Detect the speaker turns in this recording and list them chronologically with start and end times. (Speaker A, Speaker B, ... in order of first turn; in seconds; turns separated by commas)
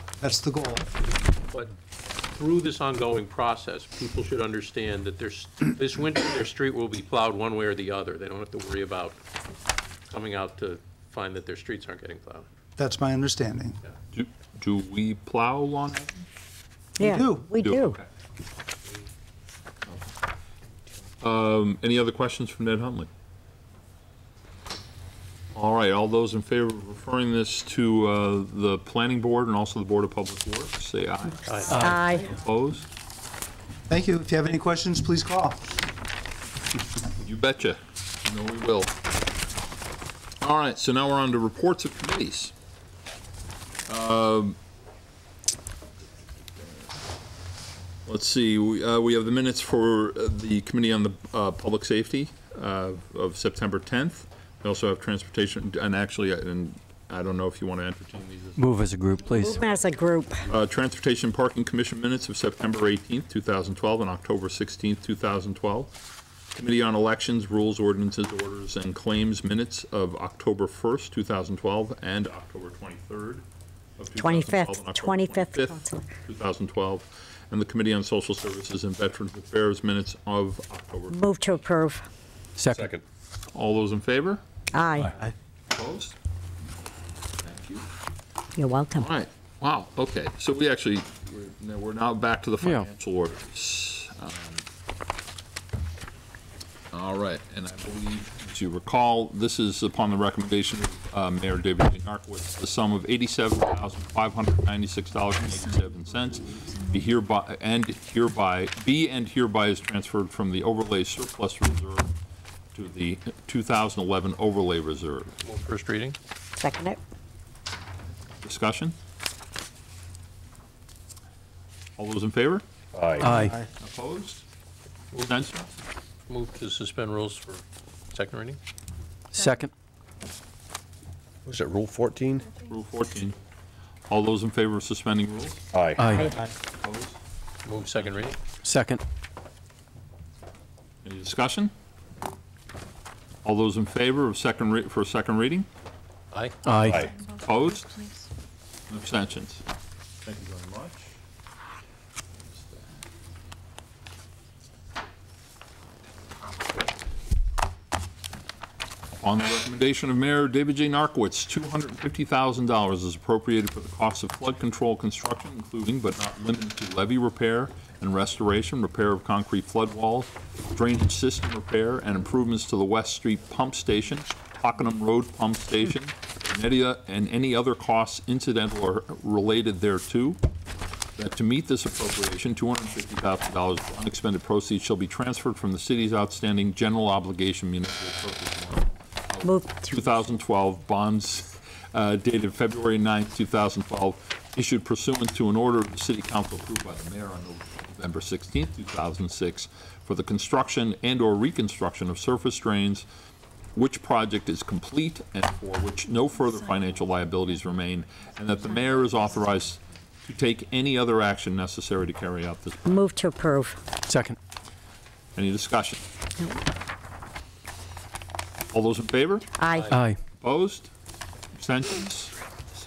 Speaker A: 0.2-0.9, Speaker B: 2.3-9.2, Speaker B: 10.1-12.4, Speaker A: 12.8-13.8, Speaker C: 14.1-16.1, Speaker A: 17.0-17.5, Speaker D: 17.0-18.0, Speaker C: 17.5-18.0, Speaker C: 21.2-23.1, Speaker C: 25.5-32.8, Speaker B: 31.4-31.8, Speaker D: 31.7-32.3, Speaker A: 33.9-35.6, Speaker C: 37.2-38.9, Speaker C: 40.4-42.5, Speaker C: 43.9-44.5, Speaker C: 48.1-58.6, Speaker E: 58.5-59.6, Speaker D: 59.4-60.4, Speaker C: 60.5-65.9, Speaker C: 66.5-73.4, Speaker C: 74.0-81.2, Speaker D: 74.2-76.1, Speaker D: 81.1-82.0, Speaker E: 82.6-82.9, Speaker F: 82.7-83.0, Speaker C: 83.5-84.4, Speaker D: 84.7-85.1, Speaker C: 85.7-86.1, Speaker C: 87.4-87.8, Speaker D: 88.6-89.0, Speaker C: 89.0-94.6, Speaker E: 92.6-92.9, Speaker C: 96.9-112.1, Speaker C: 112.7-115.3, Speaker B: 115.4-116.2, Speaker D: 116.6-117.0, Speaker C: 118.4-118.9, Speaker C: 122.0-122.6, Speaker F: 122.9-123.3, Speaker A: 123.2-123.7, Speaker E: 123.2-123.5, Speaker C: 123.8-124.4, Speaker B: 125.1-125.4, Speaker C: 125.2-125.7, Speaker B: 126.3-128.6, Speaker E: 129.3-129.7, Speaker F: 131.4-132.5, Speaker C: 132.6-133.4, Speaker C: 134.1-135.6, Speaker F: 135.7-136.2, Speaker E: 136.0-136.3, Speaker C: 136.2-137.2, Speaker B: 137.6-138.4, Speaker E: 138.6-139.0, Speaker C: 141.0-141.7, Speaker C: 143.4-145.7, Speaker E: 146.6-147.1, Speaker F: 146.8-147.1, Speaker C: 147.4-147.9, Speaker C: 148.9-149.6, Speaker C: 150.2-151.1, Speaker C: 152.5-152.8, Speaker C: 159.2-180.4, Speaker C: 181.2-203.0, Speaker D: 189.4-189.9, Speaker C: 203.7-213.0, Speaker D: 212.8-213.8, Speaker E: 214.1-214.4, Speaker C: 215.3-216.0, Speaker C: 218.7-219.6, Speaker D: 219.6-219.9, Speaker E: 219.9-220.2, Speaker C: 220.4-220.9, Speaker C: 221.5-222.3